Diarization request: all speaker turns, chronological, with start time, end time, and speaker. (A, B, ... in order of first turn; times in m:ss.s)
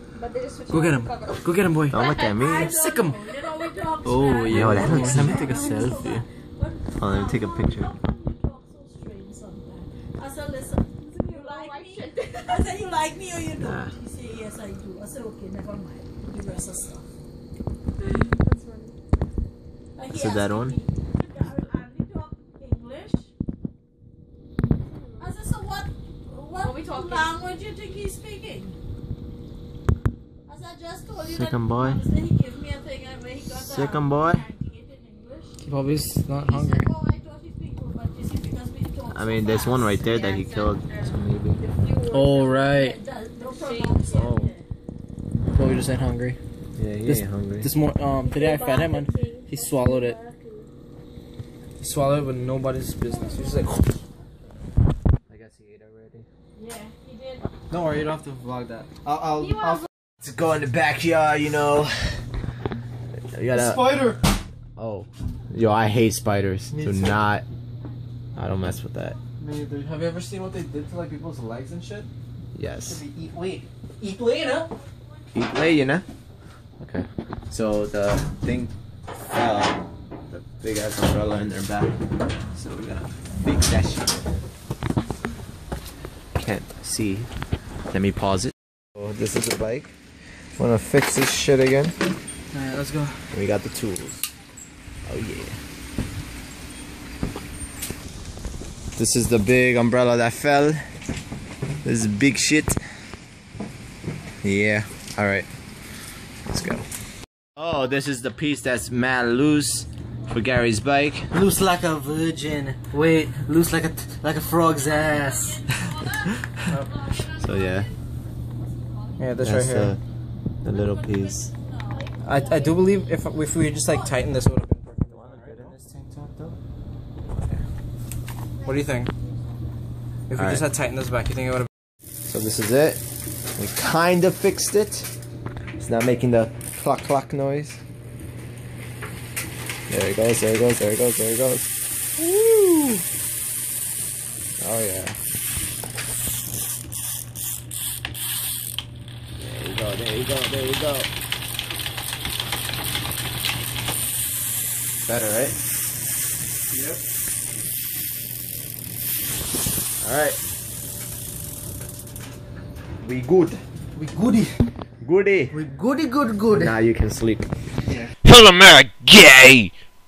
0:00.2-0:02.8 A
0:00.7-0:02.1 B
0:01.9-0:02.8 C
0:02.4-0:17.1 D
0:02.7-0:03.3 B
0:04.0-0:05.9 B
0:04.5-0:06.2 C
0:04.7-0:05.9 A
0:07.0-0:07.9 C
0:11.1-0:12.9 A
0:13.6-0:13.9 C
0:18.4-0:19.0 A
0:20.0-0:23.3 D
0:20.1-0:20.8 C
0:24.6-0:25.3 A
0:25.2-0:28.8 D
0:26.6-0:27.4 A
0:30.5-0:35.6 D
0:31.2-0:32.0 C
0:33.6-0:34.4 C
0:35.6-0:36.9 B
0:36.3-0:40.2 D
0:39.1-0:41.6 C
0:40.0-0:42.7 A
0:42.1-0:43.0 B
0:42.7-0:44.7 D
0:43.4-0:44.3 A
0:44.1-0:44.5 C
0:45.5-0:46.4 B
0:46.8-0:47.7 C
0:47.1-0:50.2 B
0:48.2-0:50.7 A
0:51.8-0:54.0 B
0:53.1-0:53.6 A
0:55.3-0:56.3 C
0:56.6-0:57.5 D
0:57.7-0:59.8 B
1:00.2-1:02.2 C
1:03.3-1:04.2 C
1:03.5-1:04.2 B
1:04.8-1:07.4 C
1:06.7-1:07.2 B
1:08.4-1:09.2 C
1:09.4-1:12.1 B
1:12.6-1:13.0 C
1:12.8-1:14.7 B
1:15.3-1:16.0 C
1:16.8-1:22.0 C
1:22.6-1:23.1 B
1:23.4-1:24.4 C
1:26.4-1:27.3 C
1:27.9-1:29.9 C
1:30.6-1:32.0 C
1:32.5-1:33.2 B
1:33.3-1:34.3 C
1:35.0-1:35.6 C
1:39.0-1:40.8 C
1:41.8-1:42.8 C
1:44.4-1:45.5 C
1:46.5-1:46.9 C
1:47.6-1:51.3 C
1:51.3-1:56.0 B
1:55.1-1:57.9 D
1:56.7-1:56.9 B
1:57.3-1:57.9 C
1:59.2-2:00.0 B
1:59.4-2:00.0 C
2:00.6-2:01.5 C
2:00.6-2:02.2 D
2:01.9-2:02.8 A
2:02.2-2:05.8 B
2:03.8-2:04.2 D
2:05.1-2:06.6 C
2:08.6-2:09.1 B
2:10.3-2:11.7 B
2:10.3-2:10.7 C
2:12.3-2:13.0 C
2:13.6-2:15.1 C
2:15.8-2:17.8 C
2:19.9-2:23.0 C
2:24.6-2:25.2 C
2:29.4-2:31.1 C
2:35.1-2:35.6 C
2:36.7-2:37.0 B
2:40.0-2:40.4 C
2:43.0-2:43.6 C
2:44.0-2:44.6 B
2:45.0-2:45.6 C
2:45.5-2:46.7 B
2:46.5-2:47.5 C
2:48.2-2:49.7 C